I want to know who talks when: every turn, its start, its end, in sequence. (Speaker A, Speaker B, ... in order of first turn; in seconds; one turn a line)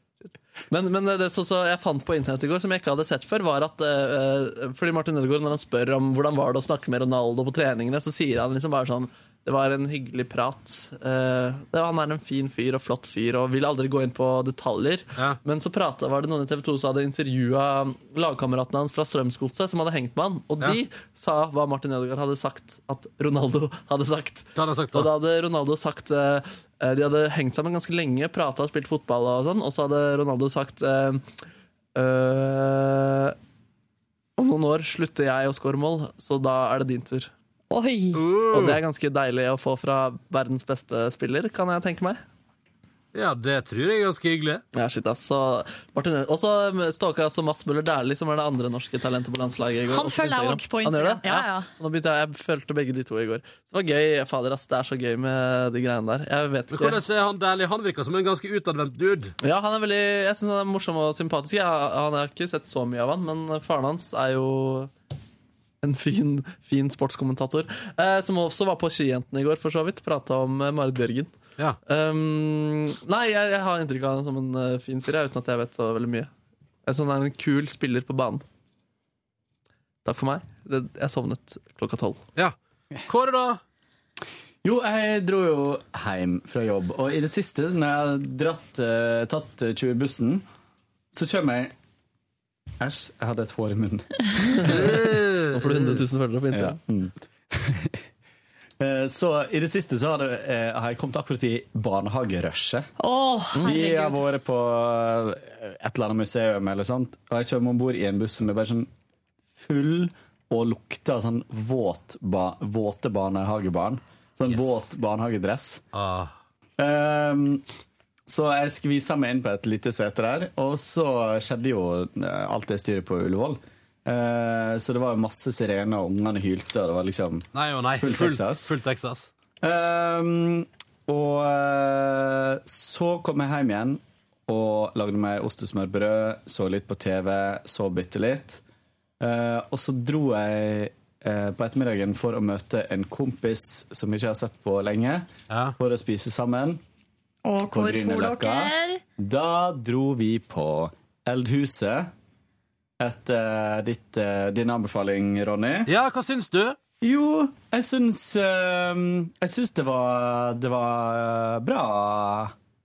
Speaker A: 0.2-31.2
Speaker B: 24.5-25.1
Speaker A: 31.9-33.4
Speaker A: 34.4-37.3
Speaker C: 37.7-38.2
Speaker B: 38.1-38.8
Speaker A: 38.5-42.2
Speaker B: 43.1-44.6
Speaker A: 44.7-57.0
Speaker C: 49.9-51.7
Speaker B: 56.7-59.3
Speaker A: 59.4-64.9
Speaker A: 65.8-71.3
Speaker A: 71.8-76.3
Speaker A: 76.8-78.4
Speaker A: 80.0-82.2
Speaker B: 82.3-83.6
Speaker D: 84.6-90.4
Speaker D: 91.1-91.7
Speaker D: 92.8-94.8
Speaker A: 94.5-95.0
Speaker B: 94.7-95.8
Speaker A: 95.5-96.8
Speaker D: 96.5-98.0
Speaker D: 98.8-102.9
Speaker C: 103.0-104.2
Speaker D: 103.6-108.9
Speaker D: 109.6-115.8
Speaker B: 115.9-116.3
Speaker D: 116.8-117.6
Speaker D: 118.3-127.5
Speaker B: 127.5-129.3
Speaker D: 128.0-128.7
Speaker D: 129.6-138.6
Speaker D: 139.2-145.3
Speaker B: 145.5-145.8
Speaker D: 145.8-146.8
Speaker C: 147.4-149.0
Speaker D: 147.7-152.1
Speaker D: 153.0-155.9
Speaker B: 155.8-156.8
Speaker D: 157.0-162.5